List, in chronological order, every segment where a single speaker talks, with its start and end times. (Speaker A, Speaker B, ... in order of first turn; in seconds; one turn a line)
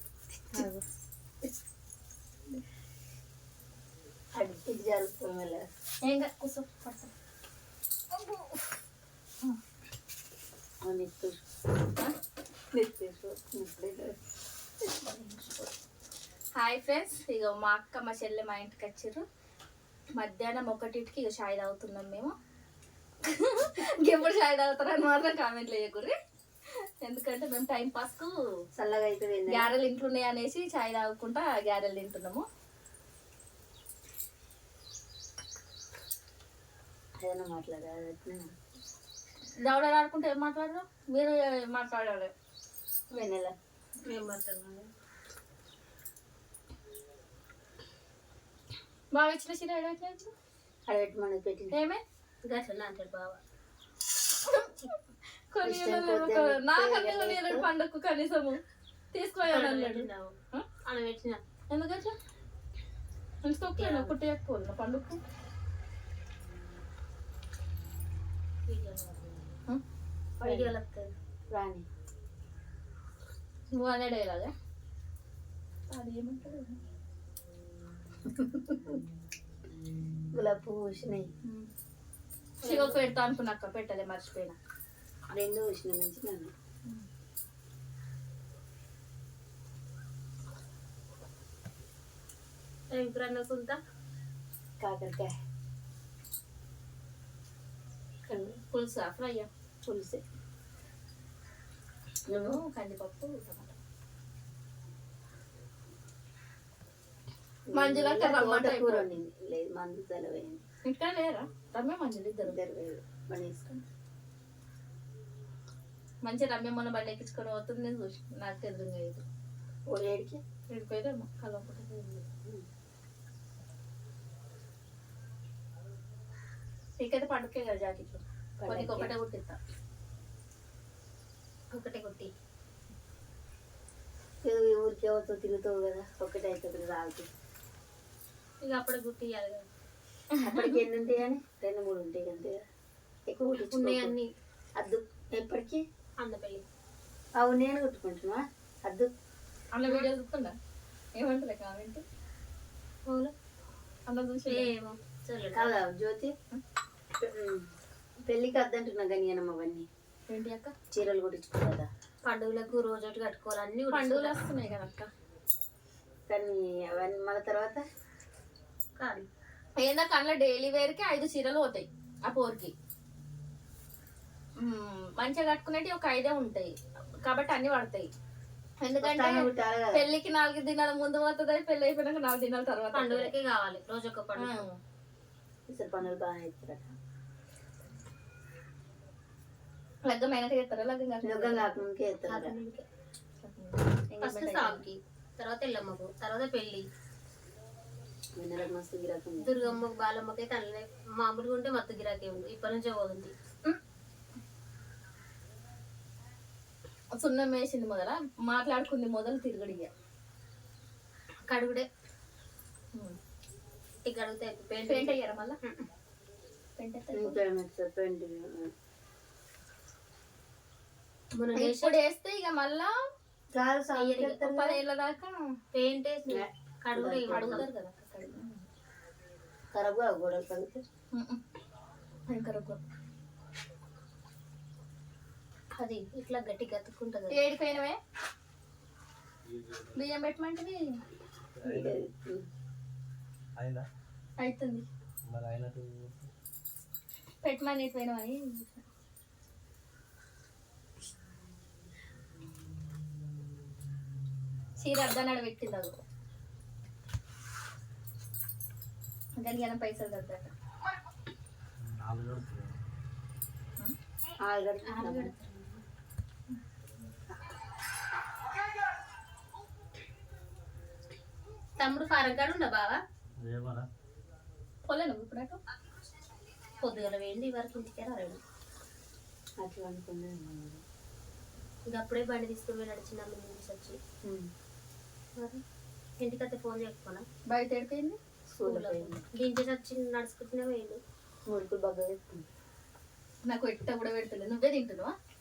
Speaker A: 4.3-5.7
Speaker B: 6.0-7.1
Speaker B: 8.1-8.7
Speaker A: 10.8-11.4
Speaker A: 12.7-14.2
Speaker B: 14.8-15.7
Speaker B: 16.6-19.2
Speaker B: 20.2-22.4
Speaker B: 23.2-28.4
Speaker A: 28.8-29.7
Speaker B: 29.5-32.5
Speaker A: 37.2-38.5
Speaker B: 39.6-42.3
Speaker A: 43.1-43.5
Speaker C: 44.0-44.9
Speaker B: 49.1-50.3
Speaker A: 50.9-51.7
Speaker B: 51.7-52.0
Speaker C: 52.4-53.4
Speaker B: 54.2-54.9
Speaker B: 55.5-58.6
Speaker A: 55.6-57.7
Speaker B: 59.1-60.7
Speaker C: 59.4-61.4
Speaker B: 61.7-62.2
Speaker B: 63.4-65.2
Speaker C: 63.7-64.1
Speaker C: 68.7-69.5
Speaker A: 70.4-70.7
Speaker C: 70.4-71.1
Speaker A: 71.5-71.8
Speaker B: 73.7-74.5
Speaker B: 75.9-76.8
Speaker B: 78.3-78.6
Speaker A: 80.3-81.3
Speaker C: 82.6-83.0
Speaker B: 82.6-84.6
Speaker A: 85.3-86.5
Speaker C: 92.9-93.8
Speaker A: 94.8-95.3
Speaker B: 98.3-99.5
Speaker A: 99.8-100.2
Speaker A: 102.3-102.6
Speaker B: 102.3-103.8
Speaker A: 107.7-110.6
Speaker B: 107.7-109.1
Speaker B: 110.8-112.6
Speaker A: 112.4-113.8
Speaker B: 116.2-119.2
Speaker A: 119.9-120.4
Speaker B: 120.7-122.2
Speaker B: 127.0-129.6
Speaker A: 128.6-129.1
Speaker C: 131.7-132.3
Speaker A: 134.4-137.3
Speaker C: 138.6-139.7
Speaker B: 140.3-140.8
Speaker A: 140.4-142.6
Speaker A: 143.3-144.2
Speaker C: 143.6-144.3
Speaker A: 144.8-145.8
Speaker C: 146.2-146.7
Speaker A: 147.4-149.1
Speaker B: 149.7-150.6
Speaker B: 151.2-152.0
Speaker C: 153.1-153.3
Speaker B: 154.1-154.7
Speaker C: 154.5-155.8
Speaker A: 155.5-156.3
Speaker A: 157.2-157.7
Speaker A: 158.2-159.9
Speaker B: 160.3-160.7
Speaker A: 160.9-161.9
Speaker C: 162.2-164.4
Speaker B: 163.9-165.1
Speaker A: 166.3-167.8
Speaker C: 169.0-169.2
Speaker B: 169.8-172.7
Speaker B: 174.6-178.1
Speaker B: 178.8-183.3
Speaker A: 179.0-180.1
Speaker C: 182.9-184.7
Speaker B: 184.3-184.8
Speaker A: 185.7-186.9
Speaker B: 190.0-191.8
Speaker A: 191.2-192.6
Speaker C: 192.3-192.8
Speaker B: 193.4-194.8
Speaker C: 194.2-196.8
Speaker A: 198.4-199.7
Speaker C: 199.4-203.3
Speaker B: 207.2-209.9
Speaker C: 211.5-211.9
Speaker C: 214.0-215.9
Speaker B: 214.8-215.6
Speaker B: 216.8-217.4
Speaker A: 217.1-218.7
Speaker C: 221.3-222.0
Speaker B: 221.5-223.1
Speaker A: 223.5-224.8
Speaker C: 224.0-224.4
Speaker B: 224.3-225.6
Speaker C: 225.7-227.7
Speaker A: 226.3-227.7
Speaker B: 227.3-228.7
Speaker A: 229.7-230.8
Speaker B: 231.1-231.4
Speaker B: 232.3-232.8
Speaker C: 235.8-237.4
Speaker B: 237.3-238.0
Speaker D: 239.5-239.9
Speaker B: 239.9-241.0
Speaker D: 241.6-242.0
Speaker A: 241.6-242.4
Speaker D: 243.6-243.9
Speaker B: 244.4-244.9
Speaker D: 245.2-246.3
Speaker B: 247.4-248.8
Speaker B: 254.8-256.0
Speaker B: 259.4-260.5
Speaker D: 261.8-262.8
Speaker A: 264.4-265.3
Speaker C: 264.9-265.8
Speaker C: 271.8-273.0
Speaker D: 273.4-273.9
Speaker B: 274.8-275.6
Speaker C: 276.8-278.4
Speaker A: 279.6-280.8
Speaker C: 281.9-284.0
Speaker A: 284.2-284.5
Speaker C: 285.4-285.6
Speaker C: 286.2-287.2
Speaker B: 287.5-288.2
Speaker A: 288.5-289.2
Speaker C: 288.6-291.0
Speaker A: 291.5-292.4
Speaker B: 293.4-295.1